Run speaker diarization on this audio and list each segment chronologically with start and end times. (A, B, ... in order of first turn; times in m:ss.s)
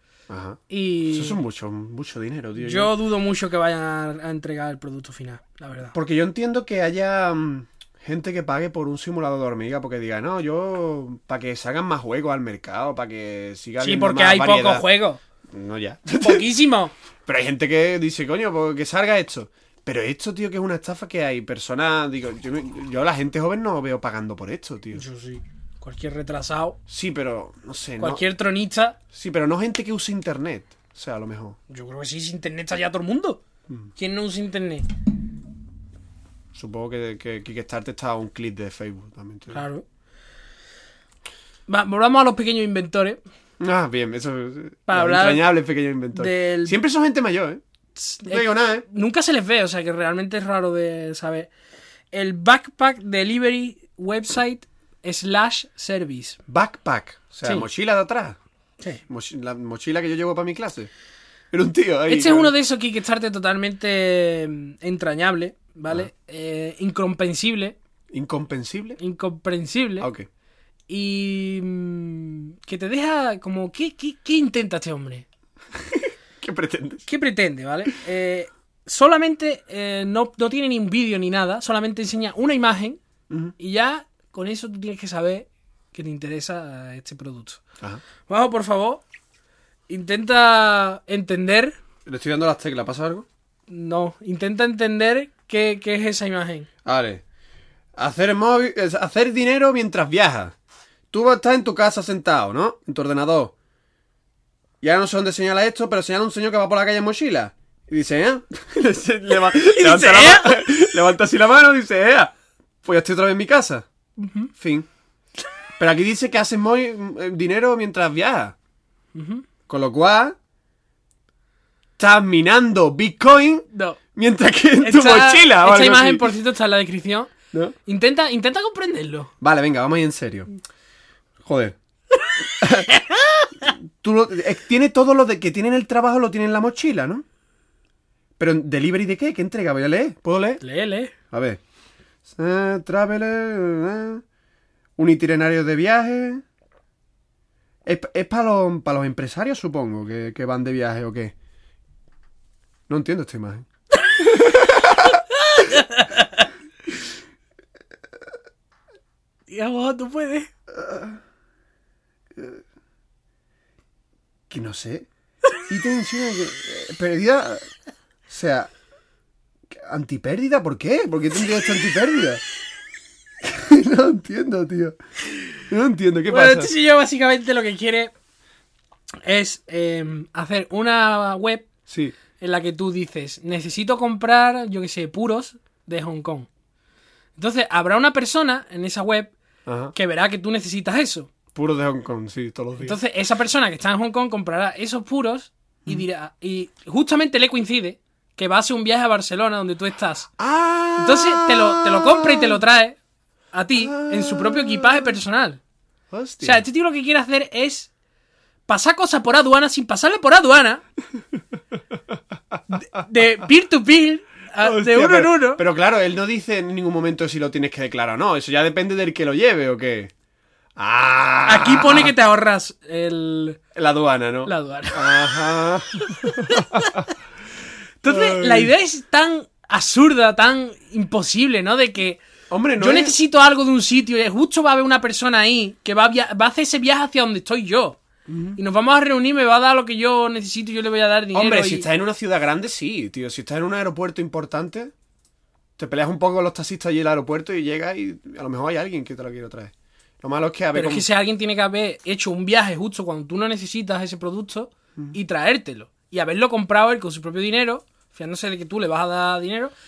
0:00.3-0:02.9 A
0:00.7-0:01.4 B
0:02.6-0:05.9 B
0:05.9-0:14.8 A
0:13.8-0:15.2 B
0:15.5-0:16.4 A
0:16.2-0:16.9 B
0:17.2-0:25.0 A
0:24.9-0:26.8 B
0:26.9-0:28.2 A
0:28.0-0:29.0 B
0:29.1-0:31.6 A
0:31.7-0:33.4 B
0:34.0-0:34.9 B
0:36.5-0:39.6 A
0:39.5-0:39.8 B
0:41.7-0:43.2 B
0:43.6-0:47.6 A
0:44.9-0:45.4 B
0:46.1-0:46.8 B
0:48.0-0:51.5 B
0:48.2-0:48.8 A
0:52.1-0:56.4 B
0:56.5-0:58.4 A
0:59.0-1:00.9 A
1:01.5-1:02.5 A
1:02.1-1:07.8 B
1:08.1-1:09.0 A
1:09.0-1:10.1 B
1:10.0-1:10.3 A
1:10.9-1:15.2 B
1:15.8-1:17.0 A
1:17.1-1:23.0 B
1:23.6-1:27.6 B
1:28.2-1:29.0 B
1:29.9-1:31.8 B
1:32.0-1:33.2 A
1:33.7-1:36.7 B
1:36.8-1:37.2 A
1:38.0-1:40.5 A
1:41.1-1:43.5 A
1:44.8-1:52.3 A
1:49.5-1:50.6 B
1:52.8-1:53.8 A
1:54.2-1:54.5 B
1:54.6-1:54.9 A
1:55.8-1:58.5 A
1:59.1-1:59.4 B
1:59.7-2:00.4 A
2:02.0-2:06.3 A
2:03.7-2:04.0 B
2:04.8-2:07.3 B
2:07.8-2:09.3 B
2:09.4-2:10.5 A
2:11.4-2:11.8 A
2:12.2-2:13.7 B
2:12.6-2:12.9 A
2:13.6-2:17.2 A
2:18.4-2:20.6 A
2:20.6-2:21.1 B
2:21.3-2:21.6 A
2:22.3-2:24.2 A
2:25.0-2:26.4 A
2:27.8-2:31.3 A
2:32.9-2:33.6 A
2:34.2-2:35.2 A
2:35.1-2:36.5 B
2:39.5-2:40.5 B
2:40.7-2:41.2 A
2:42.4-2:42.6 A
2:44.5-2:45.1 A
2:45.7-2:47.7 A
2:48.3-2:48.7 A
2:49.7-2:52.4 A
2:53.4-2:54.9 A
2:55.7-2:56.7 A
2:56.3-2:58.1 B
2:59.2-3:01.7 B
3:01.9-3:02.2 A
3:02.4-3:06.5 B
3:07.4-3:09.3 B
3:09.6-3:09.9 A
3:09.9-3:11.3 B
3:11.5-3:13.0 A
3:12.8-3:20.3 B
3:20.4-3:22.6 A
3:21.0-3:23.0 B
3:23.5-3:25.6 B
3:23.7-3:25.2 A
3:26.1-3:26.6 A
3:26.4-3:27.9 B
3:28.7-3:30.8 B
3:32.7-3:35.6 B
3:34.6-3:40.1 A
3:40.8-3:42.1 A
3:41.4-3:43.6 B
3:43.7-3:47.0 A
3:44.4-3:45.4 B
3:46.0-3:47.1 B
3:48.0-3:52.2 B
3:48.0-3:48.7 A
3:52.5-3:53.2 A
3:52.8-3:58.0 B
3:58.3-3:58.6 A
3:58.6-4:01.9 B
4:01.3-4:04.9 A
4:05.8-4:11.0 A
4:10.7-4:19.7 B